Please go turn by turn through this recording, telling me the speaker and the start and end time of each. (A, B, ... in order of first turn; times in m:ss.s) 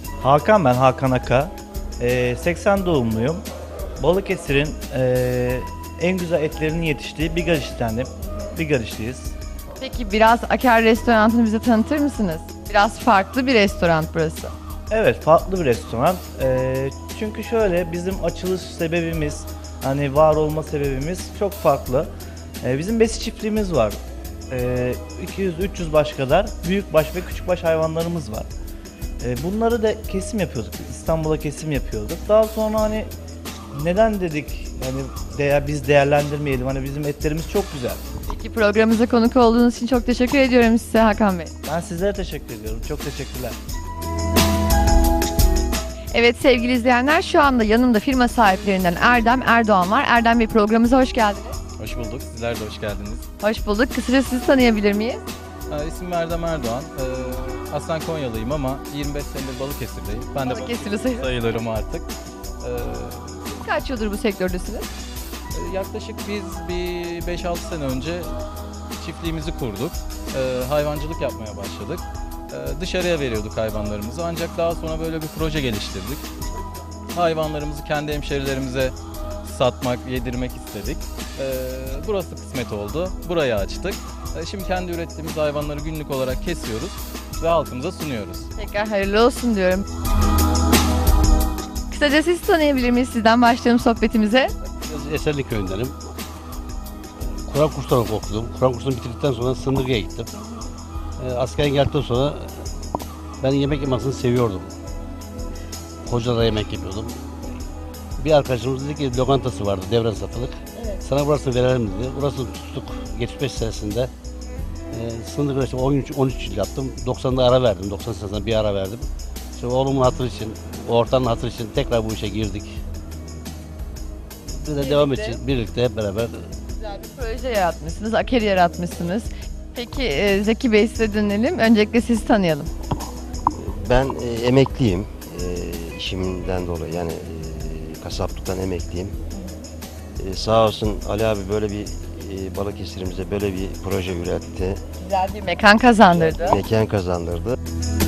0:00.2-0:03.4 A
0:04.0-0:09.4 A
0:09.8-0:14.5 B
0:14.9-0:22.1 A
0:22.6-0:24.0 A
0:24.5-0:28.5 A
0:29.2-0:33.1 A
0:33.7-0:38.0 A
0:38.3-0:41.5 B
0:41.7-0:43.6 A
0:46.1-0:51.6 B
0:51.8-0:53.3 C
0:53.4-0:55.2 B
0:55.7-1:02.1 C
1:00.4-1:01.3 B
1:02.6-1:03.4 C
1:03.5-1:04.9 B
1:05.5-1:08.4 C
1:09.0-1:16.3 C
1:17.1-1:28.5 C
1:28.6-1:29.8 B
1:31.9-1:34.5 B
1:34.9-1:36.0 D
1:37.4-1:40.3 D
1:41.2-1:42.7 D
1:43.4-1:44.7 D
1:46.0-1:47.4 D
1:48.2-1:54.1 D
1:54.9-2:02.8 D
2:04.5-2:06.5 D
2:04.8-2:05.4 B
2:06.8-2:12.7 B
2:13.5-2:19.2 E
2:20.2-2:24.8 E
2:25.0-2:26.6 B
2:26.1-2:27.6 E